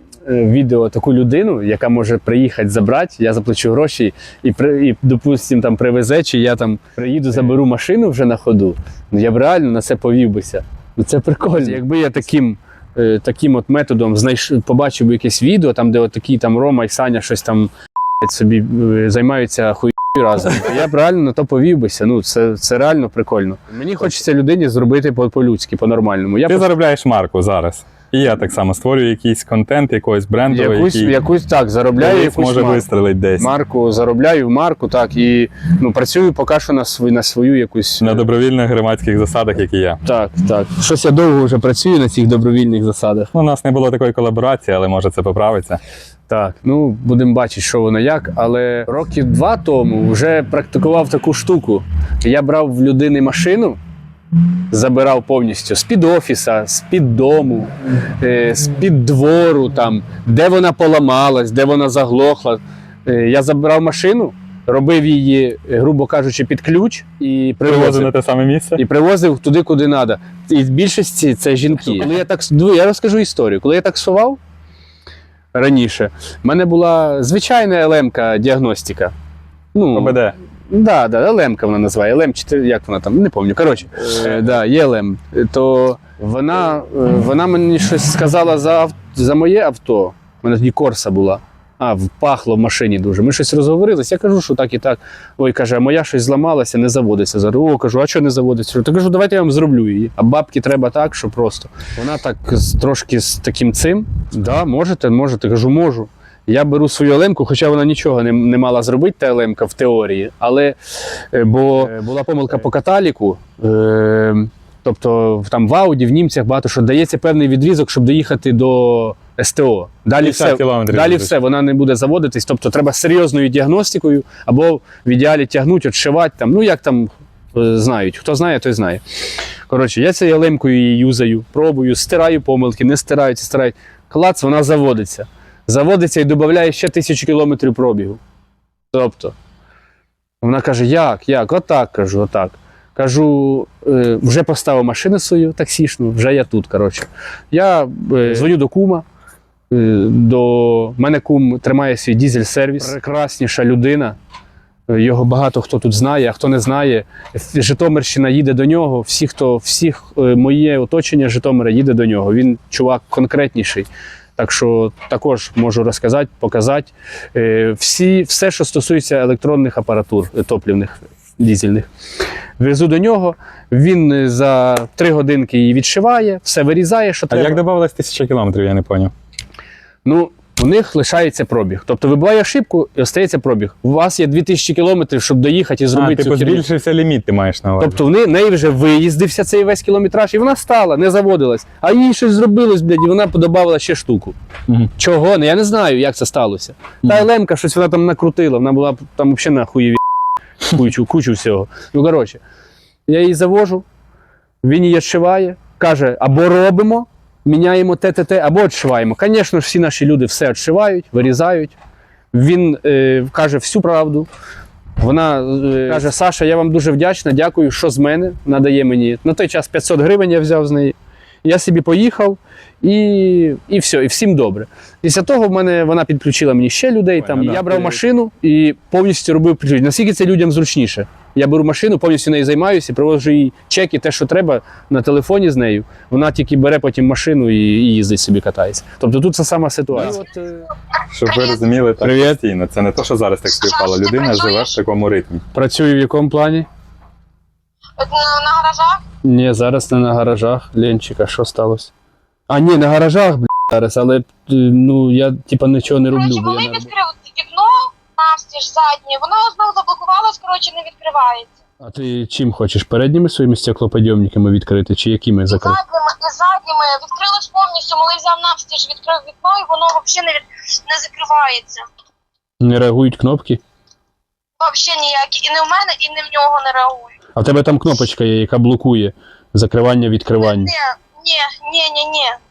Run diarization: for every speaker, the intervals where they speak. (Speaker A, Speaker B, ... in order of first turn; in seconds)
Speaker A: 0.2-26.7, 30.5-38.3, 40.0-43.3, 46.3-53.8, 54.7-68.1, 68.8-74.4, 75.5-79.1, 79.7-80.2, 80.7-129.0, 129.7-138.2, 138.9-139.3, 140.4-149.1, 149.7-154.2, 154.9-171.9, 172.6-177.6, 180.1-186.7, 187.8-194.3, 195.0-200.0, 200.6-202.4, 203.1-203.8, 204.6-211.8, 212.3-214.3, 215.0-240.7, 242.0-242.4, 245.5-246.7, 249.2-251.9, 252.5-256.9, 261.8-265.8, 272.6-273.6, 277.4-280.7
Speaker B: 26.5-31.1, 32.0-33.5, 38.0-40.0, 43.3-45.8, 67.7-68.8, 79.9-80.4, 84.1-84.6, 120.2-121.3, 177.3-179.1, 185.9-188.0, 227.2-228.0, 241.1-245.4
Speaker C: 241.3-241.6, 243.6-244.8, 248.0-249.0, 256.1-261.5, 265.5-271.9, 274.6-277.1, 280.5-282.4